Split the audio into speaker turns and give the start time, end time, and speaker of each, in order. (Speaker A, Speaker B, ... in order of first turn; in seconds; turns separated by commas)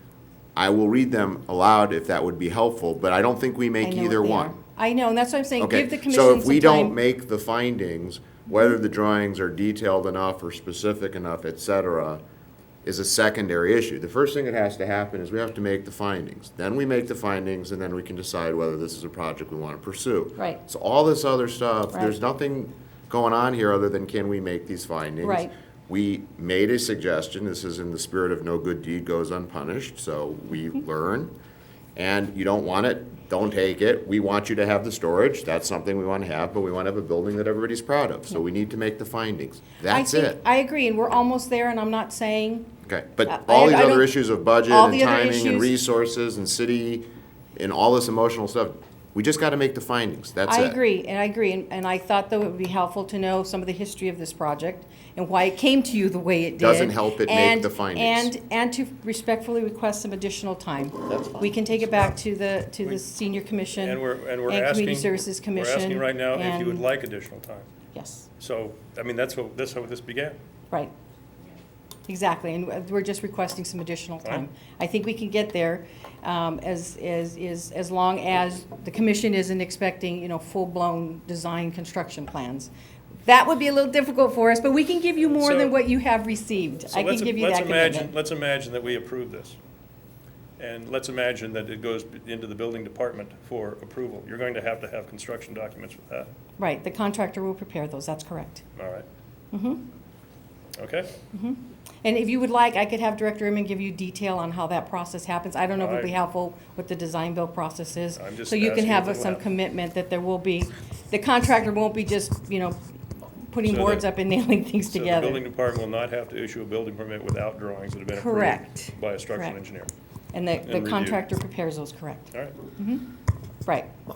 Speaker A: 0.6-4.6, Speaker B: 3.8-7.0, Speaker A: 5.6-12.2, Speaker A: 12.8-31.3, Speaker B: 25.2-25.5, Speaker A: 31.9-40.4, Speaker B: 39.8-42.7, Speaker A: 42.9-50.8, Speaker B: 43.3-44.1, Speaker B: 44.7-45.7, Speaker B: 50.4-66.9, Speaker A: 56.6-58.3, Speaker A: 61.1-61.4, Speaker C: 63.7-67.7, Speaker B: 67.9-68.3, Speaker C: 68.4-70.4, Speaker B: 72.0-82.7, Speaker B: 83.2-88.1, Speaker C: 85.3-85.8, Speaker C: 86.9-89.6, Speaker C: 90.6-96.3, Speaker B: 96.6-98.7, Speaker C: 98.8-99.0, Speaker B: 99.5-99.8, Speaker C: 100.8-101.2, Speaker B: 101.3-115.4, Speaker C: 105.8-106.1, Speaker C: 108.1-109.5, Speaker C: 113.6-114.1, Speaker C: 114.9-119.9, Speaker B: 118.1-119.6, Speaker B: 120.3-123.1, Speaker C: 120.6-121.3, Speaker C: 122.3-122.6, Speaker B: 123.6-123.9